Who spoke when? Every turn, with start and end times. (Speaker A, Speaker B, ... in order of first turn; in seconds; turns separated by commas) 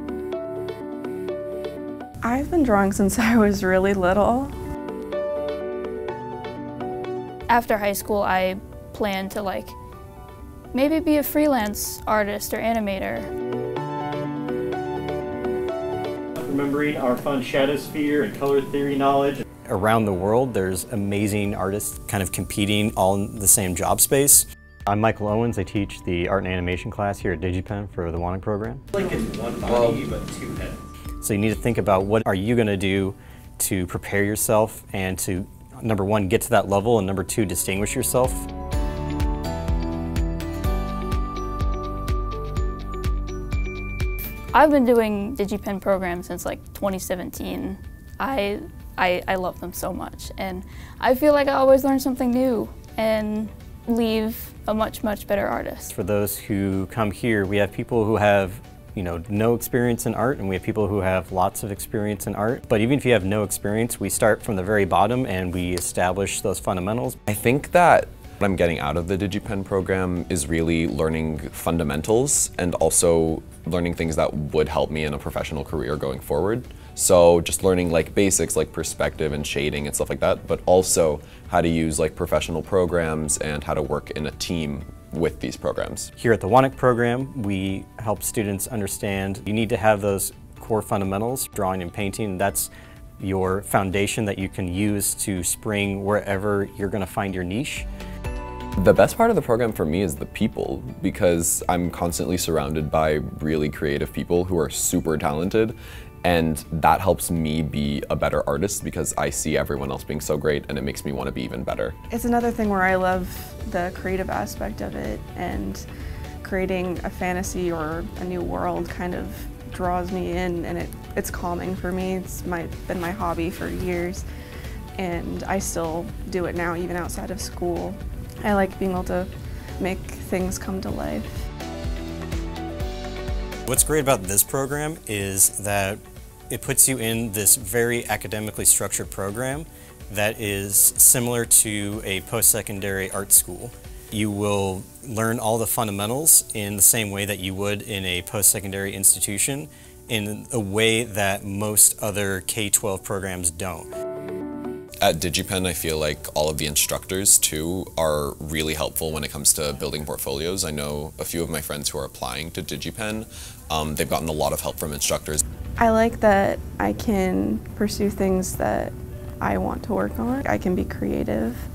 Speaker A: 2.2-4.5, Speaker B: 7.5-9.8, Speaker B: 10.7-13.3, Speaker C: 16.3-38.5, Speaker D: 29.7-30.0, Speaker B: 44.5-55.9, Speaker C: 55.9-67.2, Speaker D: 67.3-86.1, Speaker C: 86.2-97.8, Speaker D: 98.8-112.0, Speaker A: 112.1-115.8, Speaker A: 116.4-124.2, Speaker A: 125.0-131.5, Speaker C: 133.7-153.9, Speaker D: 155.0-165.4, Speaker A: 165.8-171.7